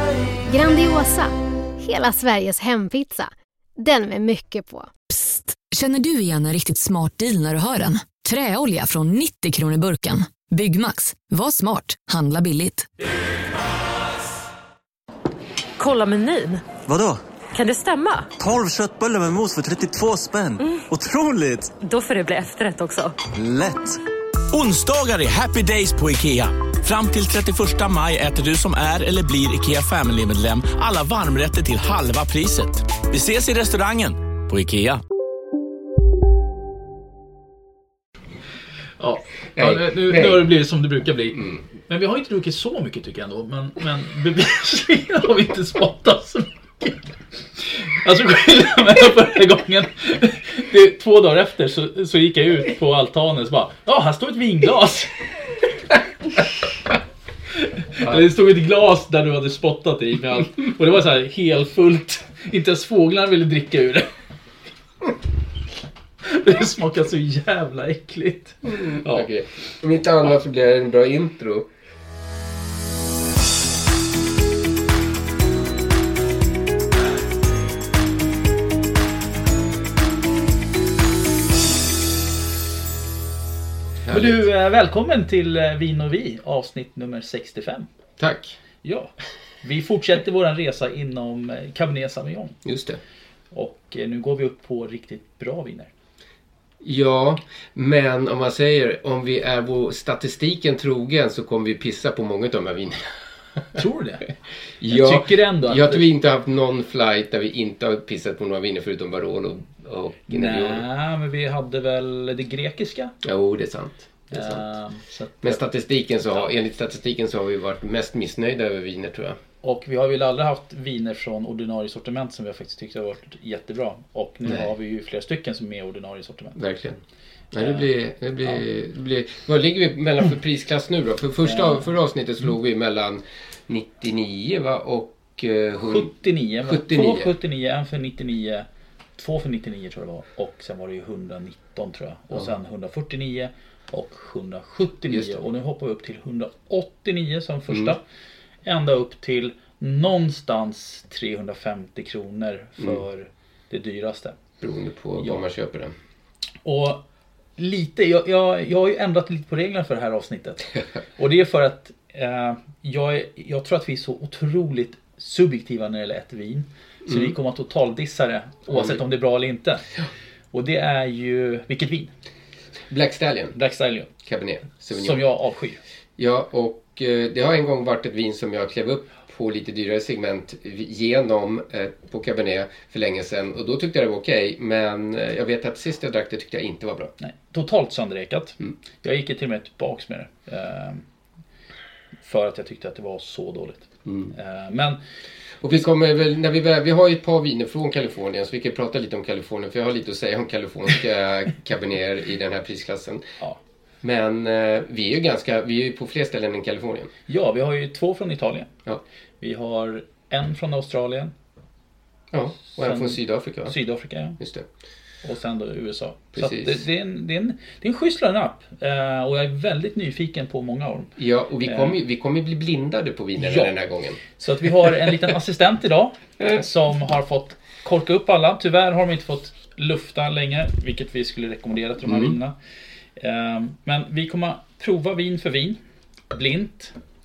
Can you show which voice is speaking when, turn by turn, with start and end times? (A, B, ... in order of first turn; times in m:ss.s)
0:00.5-0:04.9 A
0:05.1-0:12.9 B
0:15.8-0:16.7 C
0:16.8-0:17.2 D
0:17.5-0:18.3 C
0:18.4-0:21.8 D
0:21.8-0:23.2 C
0:23.3-0:24.0 D
0:24.5-0:35.0 E
0:39.0-0:47.0 F
0:39.6-0:40.5 G
0:48.0-0:55.1 F
0:58.0-1:04.1 F
1:06.2-1:09.3 F
1:08.6-1:11.7 G
1:24.0-1:24.4 G
1:24.1-1:27.9 F
1:28.2-1:28.6 G
1:28.8-1:29.1 F
1:29.6-1:32.6 F
1:32.6-1:33.0 G
1:33.5-1:35.9 F
1:36.8-1:43.0 G
1:43.8-1:44.3 F
1:44.8-1:50.8 G
1:44.9-1:46.0 F
1:50.3-1:53.1 F
1:53.2-1:54.7 G
1:54.3-1:55.6 F
1:55.4-1:59.4 G
1:59.6-2:06.6 F
2:06.6-2:07.0 G
2:07.5-2:16.1 G
2:11.4-2:11.9 F
2:15.8-2:18.7 F
2:16.6-2:17.3 G
2:19.2-2:28.0 F
2:25.1-2:25.4 G
2:28.6-2:34.4 F
2:34.6-2:35.9 G
2:36.6-2:37.0 F
2:37.6-2:49.8 F
2:48.7-2:49.0 G
2:50.5-2:52.1 F
2:52.9-2:53.6 G
2:53.6-2:54.1 F
2:54.2-2:55.2 G
2:54.9-2:55.8 F
2:56.2-3:07.1 G
3:07.2-3:11.0 F
3:12.2-3:15.0 F
3:14.1-3:14.3 G
3:15.6-3:23.3 G
3:24.0-3:27.1 G
3:27.3-3:28.7 F
3:29.4-3:31.3 F
3:32.3-3:33.8 G
3:32.8-3:34.4 F
3:34.4-3:34.7 G
3:35.2-3:41.1 F
3:36.4-3:36.8 G
3:41.2-3:44.2 G
3:41.6-3:41.9 F
3:43.4-3:43.7 F
3:44.4-3:52.6 F
3:53.2-3:55.8 F
3:56.3-3:57.0 F